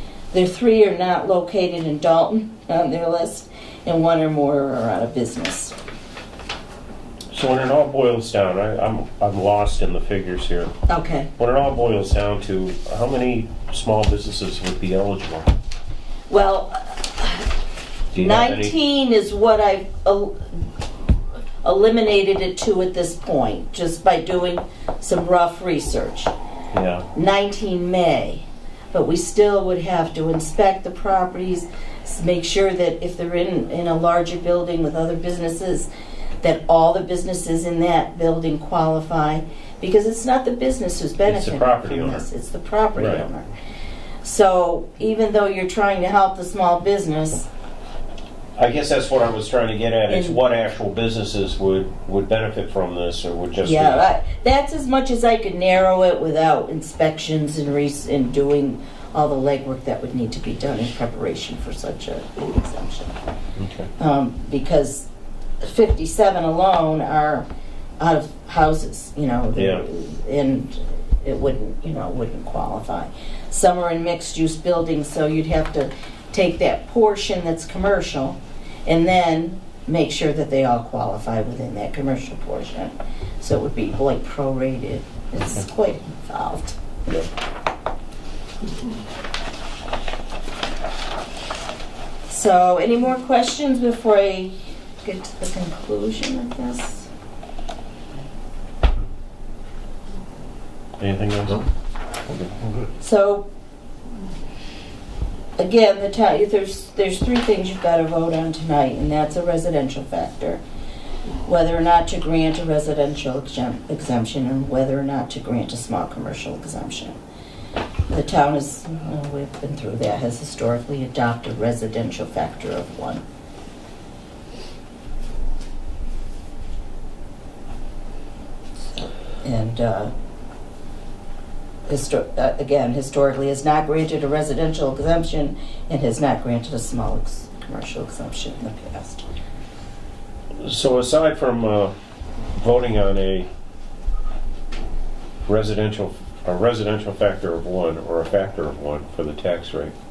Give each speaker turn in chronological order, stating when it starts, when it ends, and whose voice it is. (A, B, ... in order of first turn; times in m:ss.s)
0:00.3-0:05.7 A
0:07.3-0:10.7 B
0:10.9-0:11.3 A
0:11.4-0:15.5 B
0:16.3-0:17.5 A
0:18.1-0:18.7 B
0:18.2-0:20.6 A
0:21.6-0:26.3 A
0:26.7-0:27.1 B
0:27.1-0:35.9 A
0:36.4-0:43.5 A
0:41.2-0:42.2 B
0:42.9-0:43.2 B
0:44.2-0:47.5 A
0:48.6-0:54.1 B
0:50.1-0:50.4 A
0:53.6-1:03.1 A
1:03.6-1:03.9 B
1:04.0-1:05.1 A
1:05.6-1:07.4 A
1:08.0-1:26.8 A
1:09.5-1:09.8 B
1:32.3-1:37.1 A
1:41.0-1:41.6 B
1:42.3-1:42.8 B
1:43.0-1:43.5 A
1:45.6-1:50.6 A
1:51.4-1:57.2 A
1:58.1-2:03.2 A
2:08.9-2:10.1 A
2:11.9-2:19.3 A
2:20.6-2:21.9 B
2:22.5-2:23.5 B
2:25.4-2:29.9 B